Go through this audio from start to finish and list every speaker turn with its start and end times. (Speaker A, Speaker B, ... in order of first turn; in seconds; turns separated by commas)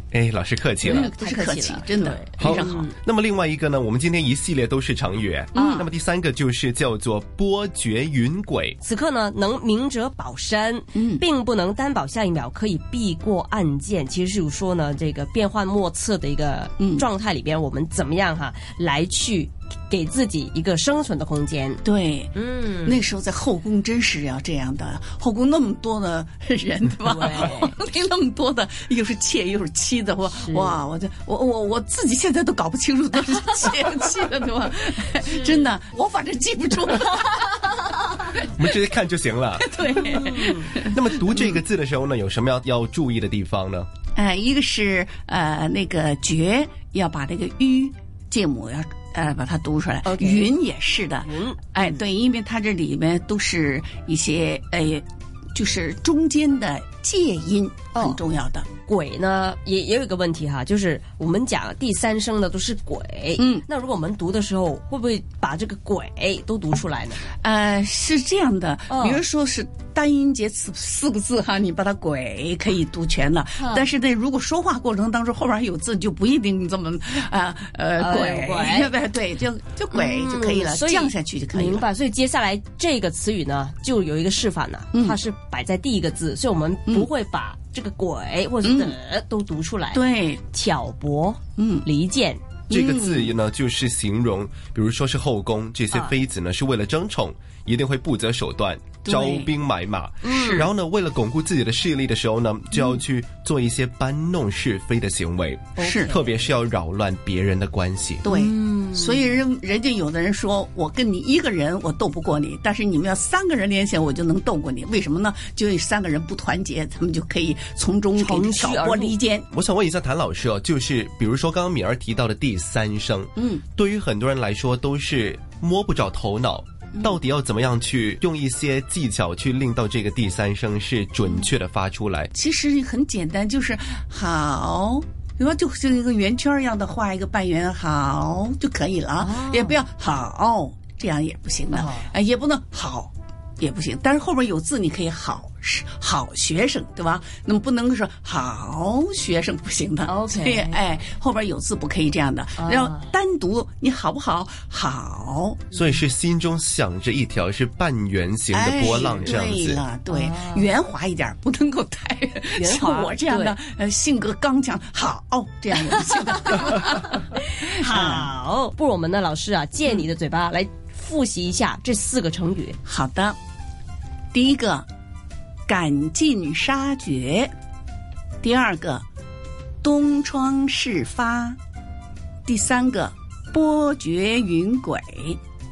Speaker A: 0.1-1.1, Speaker B: 0.8-3.0, Speaker C: 1.0-2.8, Speaker A: 2.4-8.8, Speaker B: 5.5-5.9, Speaker B: 8.8-21.8, Speaker C: 21.8-22.3, Speaker B: 22.3-23.0, Speaker C: 22.8-37.6, Speaker B: 27.0-27.7, Speaker B: 30.3-30.8, Speaker B: 35.2-35.7, Speaker A: 38.5-40.0, Speaker C: 39.7-40.8, Speaker B: 40.0-40.7, Speaker A: 40.6-43.9, Speaker C: 44.2-51.2, Speaker B: 50.0-50.5, Speaker B: 51.2-52.0, Speaker C: 51.8-55.0, Speaker C: 55.5-58.7, Speaker B: 57.9-58.2, Speaker B: 58.9-67.2, Speaker C: 63.4-63.6, Speaker C: 67.4-81.8, Speaker B: 68.9-69.2, Speaker B: 73.6-73.9, Speaker B: 78.0-78.9, Speaker B: 79.9-92.4, Speaker C: 89.9-90.4, Speaker C: 91.6-91.8, Speaker A: 92.7-108.3, Speaker C: 92.7-93.2, Speaker B: 100.2-100.7, Speaker B: 105.8-106.4, Speaker C: 105.8-106.1, Speaker B: 108.3-109.2, Speaker C: 108.3-119.5, Speaker B: 118.2-119.2, Speaker A: 119.5-132.3, Speaker C: 132.4-155.6, Speaker B: 139.2-139.8, Speaker B: 141.7-142.1, Speaker B: 150.0-150.8, Speaker B: 152.6-153.1, Speaker A: 155.7-159.8, Speaker C: 158.6-167.2, Speaker B: 159.0-159.3, Speaker B: 160.1-160.7, Speaker B: 162.6-163.6, Speaker B: 165.9-172.8, Speaker C: 167.9-168.2, Speaker C: 172.8-173.4, Speaker C: 174.3-174.8, Speaker C: 175.7-177.5, Speaker C: 178.4-179.0, Speaker C: 179.8-181.6, Speaker C: 182.5-185.3